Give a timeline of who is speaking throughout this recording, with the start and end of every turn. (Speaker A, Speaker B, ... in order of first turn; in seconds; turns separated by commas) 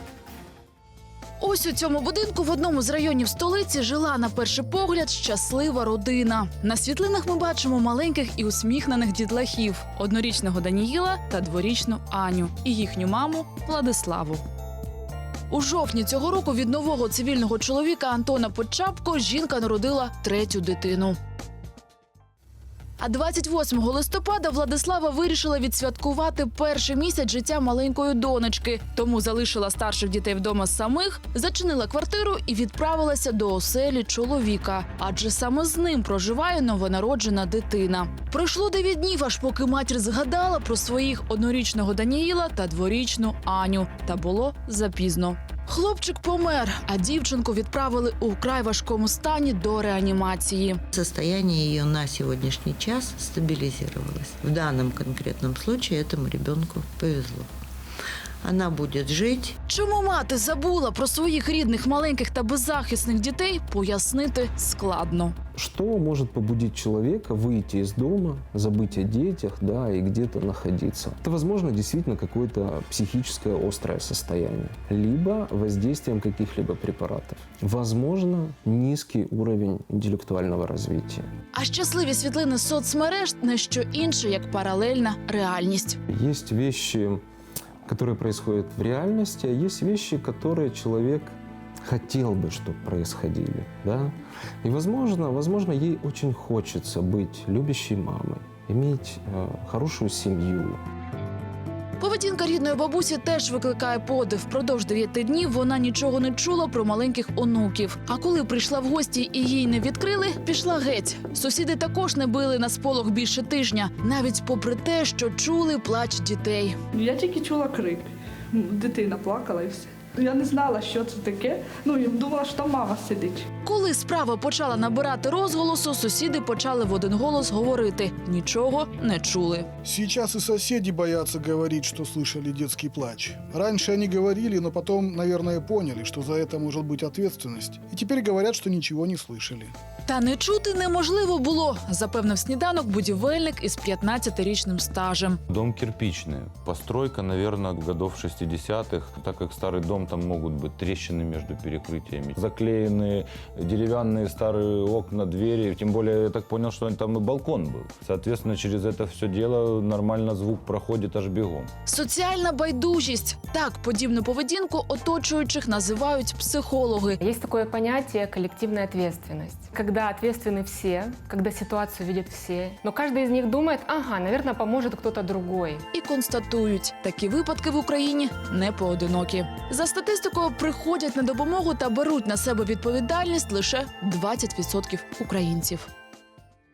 Speaker A: 1.4-14.4, Speaker A: 15.5-21.1, Speaker A: 23.0-50.8, Speaker B: 50.9-57.5, Speaker B: 58.4-59.5, Speaker A: 59.7-65.3, Speaker C: 65.5-81.3, Speaker A: 81.5-86.0, Speaker C: 86.1-87.2, Speaker C: 87.8-100.8, Speaker A: 102.0-116.8, Speaker D: 117.1-117.8, Speaker D: 120.3-123.3, Speaker A: 123.6-129.7, Speaker E: 129.8-139.7, Speaker A: 140.1-145.4, Speaker F: 145.5-161.7, Speaker A: 161.8-167.2, Speaker G: 167.2-175.9, Speaker A: 175.9-185.9